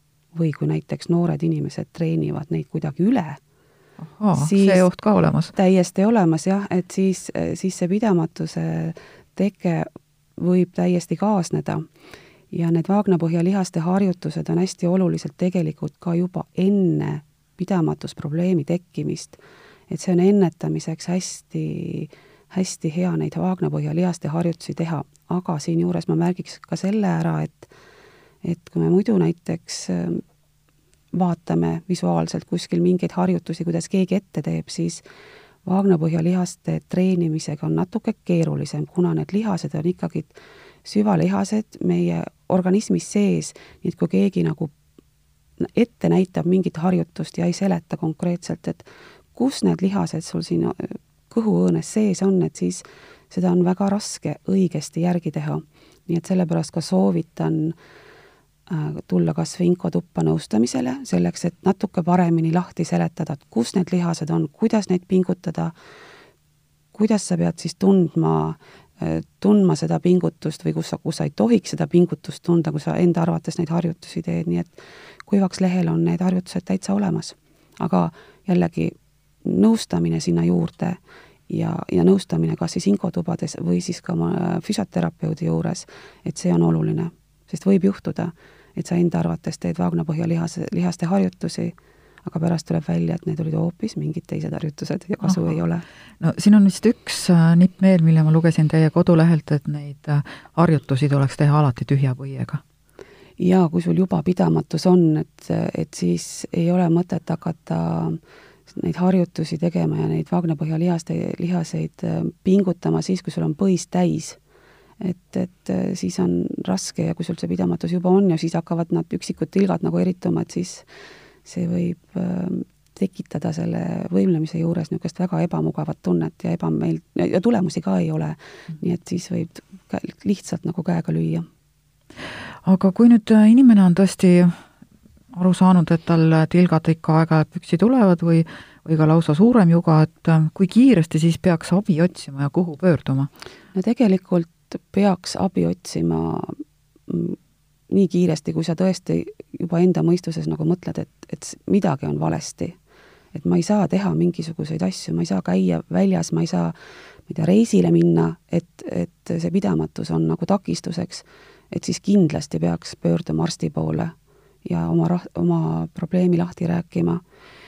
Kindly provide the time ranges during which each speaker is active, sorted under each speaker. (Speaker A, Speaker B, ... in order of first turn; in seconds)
Speaker A: 0.3-3.4, 4.3-4.8, 5.5-11.8, 12.5-27.7, 28.4-30.2, 31.1-35.0, 35.6-44.7, 45.6-57.8, 58.7-65.7, 66.9-95.8, 103.4-114.4, 115.0-120.8, 121.4-131.5, 143.7-147.4, 147.9-152.8, 153.3-156.7, 157.3-164.1, 164.7-167.2
Speaker B: 4.0-5.5, 95.2-95.5, 96.2-102.6, 132.6-134.6, 135.3-143.3